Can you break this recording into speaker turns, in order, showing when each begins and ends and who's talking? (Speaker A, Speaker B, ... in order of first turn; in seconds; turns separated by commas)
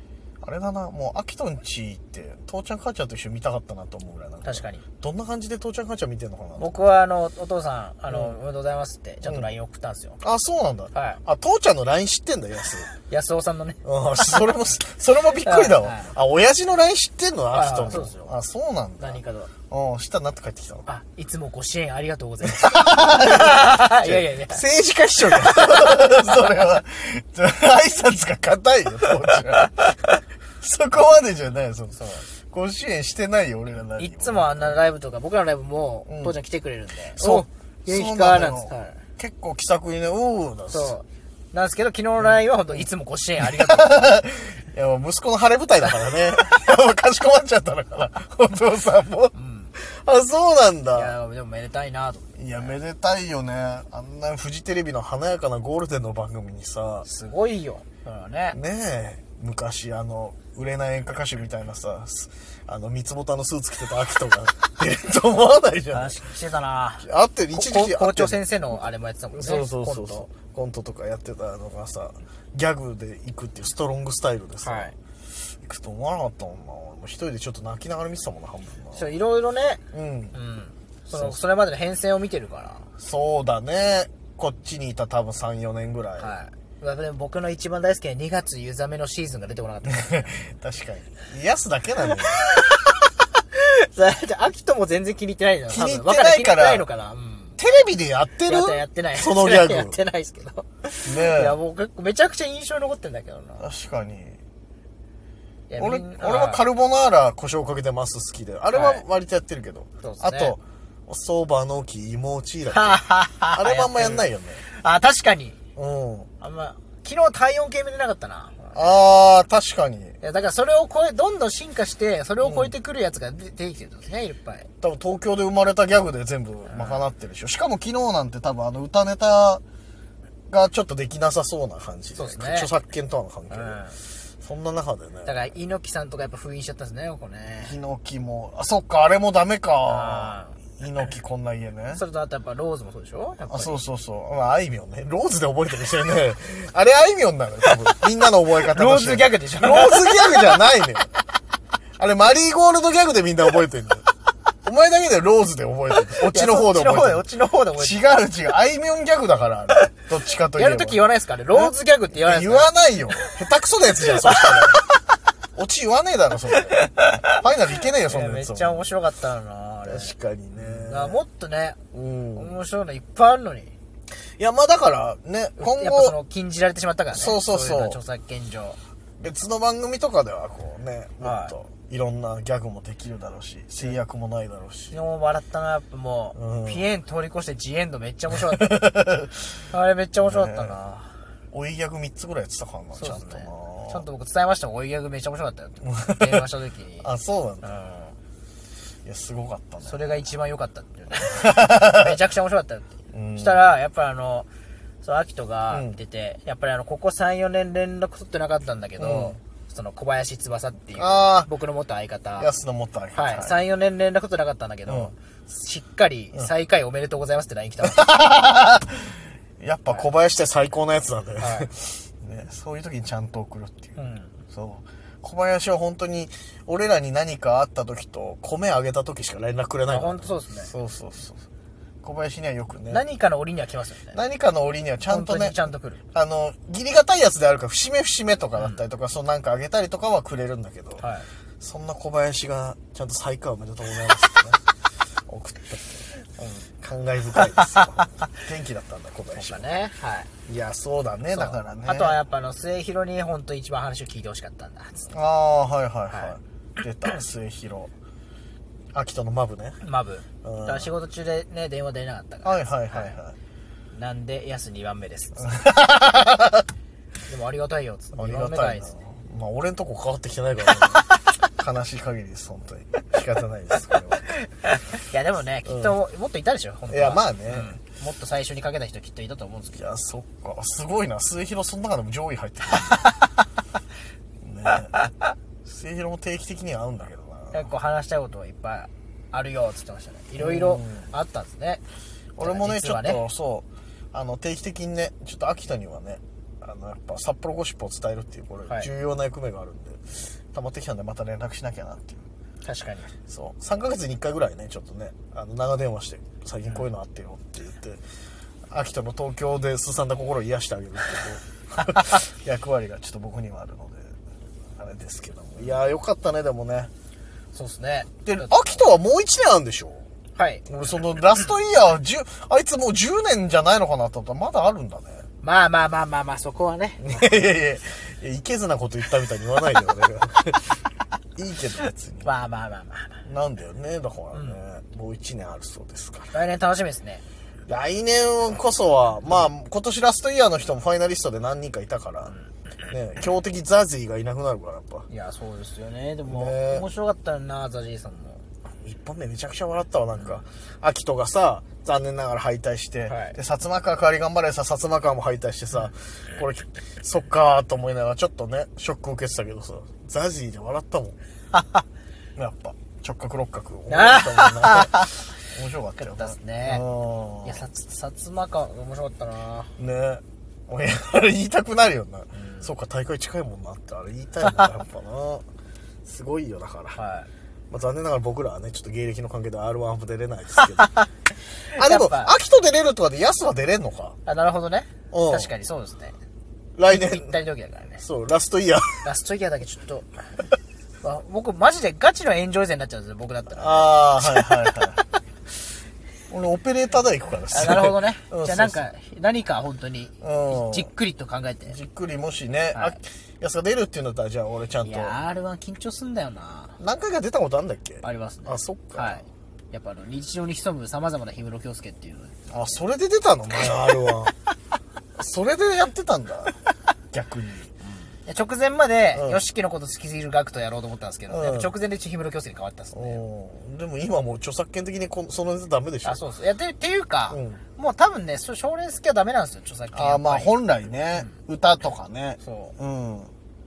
Speaker A: 0.4-6.8, Speaker B: 4.4-4.8, Speaker B: 6.6-10.2, Speaker A: 9.2-9.5, Speaker A: 10.2-12.9, Speaker B: 10.9-11.2, Speaker B: 13.1-14.4, Speaker A: 13.8-20.9, Speaker B: 15.4-16.1, Speaker B: 17.5-18.3, Speaker B: 19.0-19.5, Speaker B: 20.9-24.6, Speaker A: 22.4-34.8, Speaker B: 25.3-25.9, Speaker B: 31.9-32.3, Speaker B: 34.0-39.0, Speaker A: 36.1-36.4, Speaker A: 37.1-41.0, Speaker B: 40.7-44.2, Speaker A: 42.2-42.8, Speaker A: 43.4-51.1, Speaker B: 49.3-49.7, Speaker B: 50.9-52.7, Speaker A: 52.4-57.0, Speaker B: 57.0-58.6, Speaker A: 58.5-66.3, Speaker B: 65.9-70.3, Speaker A: 67.0-68.4, Speaker A: 69.3-79.1, Speaker B: 74.6-74.9, Speaker B: 78.9-79.8, Speaker A: 79.9-80.3, Speaker B: 80.3-82.9, Speaker A: 81.1-81.4, Speaker A: 83.0-86.3, Speaker B: 86.2-90.3, Speaker A: 89.9-92.4, Speaker B: 92.3-97.6, Speaker A: 95.7-96.9, Speaker A: 97.6-100.0, Speaker B: 98.5-103.6, Speaker A: 101.0-101.6, Speaker A: 103.6-104.4, Speaker B: 105.7-106.6, Speaker A: 105.8-114.6, Speaker B: 108.7-109.0, Speaker B: 110.0-110.6, Speaker B: 112.7-115.6, Speaker A: 115.8-116.3, Speaker B: 116.4-119.0, Speaker A: 118.7-120.2, Speaker B: 120.2-124.7, Speaker A: 122.4-122.7, Speaker A: 124.8-129.6, Speaker B: 126.7-127.0, Speaker A: 130.5-133.8, Speaker B: 132.2-132.7, Speaker B: 133.5-133.9, Speaker A: 134.4-135.3, Speaker B: 135.2-137.8, Speaker A: 137.6-142.0, Speaker B: 139.8-140.6, Speaker B: 141.9-143.8, Speaker A: 143.5-151.1, Speaker B: 148.6-150.6, Speaker A: 152.0-154.1, Speaker A: 154.6-157.2, Speaker B: 156.1-158.2, Speaker A: 157.8-161.0, Speaker B: 160.5-162.7, Speaker A: 161.5-164.9, Speaker B: 164.3-164.8, Speaker A: 165.5-168.9, Speaker B: 166.7-167.2, Speaker B: 168.0-171.8, Speaker A: 169.8-171.2, Speaker A: 171.9-172.6, Speaker B: 172.3-173.7, Speaker A: 174.4-176.2, Speaker B: 175.6-178.8, Speaker A: 177.1-178.0, Speaker A: 179.2-185.0, Speaker B: 181.2-181.5, Speaker B: 184.9-188.8, Speaker A: 186.3-186.8, Speaker A: 188.5-189.6, Speaker B: 189.7-191.2, Speaker A: 190.2-190.8, Speaker A: 191.5-194.0, Speaker B: 192.9-197.1, Speaker A: 195.8-196.5, Speaker A: 197.0-197.7, Speaker B: 197.6-198.1, Speaker A: 199.0-200.0, Speaker B: 199.8-204.5, Speaker A: 201.3-202.0, Speaker A: 203.1-203.7, Speaker B: 205.0-212.5, Speaker A: 205.7-206.0, Speaker A: 209.0-209.4, Speaker A: 210.9-211.5, Speaker A: 212.4-213.6, Speaker B: 213.1-218.1, Speaker A: 214.9-215.1, Speaker A: 217.8-223.9, Speaker B: 221.4-221.7, Speaker B: 224.0-224.3, Speaker A: 224.5-231.4, Speaker B: 229.9-230.7, Speaker A: 232.0-233.0, Speaker B: 232.9-234.2, Speaker A: 234.1-235.6, Speaker B: 235.1-236.0, Speaker A: 236.1-241.1, Speaker B: 238.6-238.8, Speaker B: 241.0-241.3, Speaker A: 241.6-244.6, Speaker A: 245.3-246.1, Speaker A: 246.8-249.7, Speaker B: 249.3-250.3, Speaker A: 250.4-252.2, Speaker B: 251.3-255.1, Speaker A: 255.1-257.9, Speaker A: 258.9-259.8, Speaker B: 259.8-263.1, Speaker A: 260.4-260.9, Speaker A: 262.4-263.4, Speaker B: 263.9-265.6, Speaker A: 265.4-266.6, Speaker B: 267.3-268.9, Speaker A: 268.1-274.4, Speaker B: 274.9-279.8, Speaker A: 275.6-275.9, Speaker A: 276.9-277.8, Speaker A: 279.7-283.1, Speaker B: 282.8-283.2, Speaker A: 284.4-285.1, Speaker A: 285.6-287.7, Speaker B: 287.5-291.8, Speaker A: 290.4-291.1, Speaker A: 292.4-302.3, Speaker B: 292.4-293.2, Speaker B: 302.6-303.1, Speaker A: 303.3-308.0, Speaker A: 308.7-314.1, Speaker A: 314.8-316.9, Speaker B: 317.5-318.8, Speaker A: 318.2-320.0, Speaker B: 320.4-320.6, Speaker A: 320.6-325.2, Speaker B: 325.4-327.2, Speaker A: 327.0-330.8, Speaker A: 331.4-332.3, Speaker B: 332.2-333.2, Speaker A: 333.2-336.4, Speaker B: 334.3-334.6, Speaker B: 336.3-337.2, Speaker A: 337.7-342.3, Speaker A: 342.9-345.1, Speaker B: 345.1-348.4, Speaker A: 346.2-346.9, Speaker A: 348.8-361.2, Speaker B: 353.1-353.4, Speaker B: 361.5-361.8, Speaker A: 362.4-367.6, Speaker B: 363.9-365.2, Speaker B: 366.0-366.8, Speaker B: 367.4-369.7, Speaker A: 369.8-375.4, Speaker B: 372.3-372.7, Speaker A: 376.0-377.0, Speaker B: 376.9-377.3, Speaker A: 377.7-380.9, Speaker B: 380.8-381.1, Speaker A: 381.7-384.2, Speaker B: 381.7-382.3, Speaker B: 384.2-386.1, Speaker A: 385.1-385.5, Speaker A: 386.8-387.4, Speaker B: 386.9-388.0, Speaker A: 388.0-389.1, Speaker B: 389.0-390.1, Speaker B: 391.0-394.5, Speaker A: 393.5-395.0, Speaker A: 396.3-398.8, Speaker B: 397.5-401.8, Speaker A: 400.2-400.9, Speaker A: 401.6-405.2, Speaker B: 404.8-406.8, Speaker A: 406.8-409.2, Speaker B: 408.0-412.4, Speaker A: 412.5-414.3, Speaker A: 415.1-416.6, Speaker A: 417.1-417.7, Speaker B: 418.0-423.2, Speaker A: 419.1-419.4, Speaker A: 421.3-421.7, Speaker A: 422.9-426.2, Speaker B: 426.0-430.5, Speaker A: 427.3-427.6, Speaker A: 429.9-433.3, Speaker B: 432.4-432.7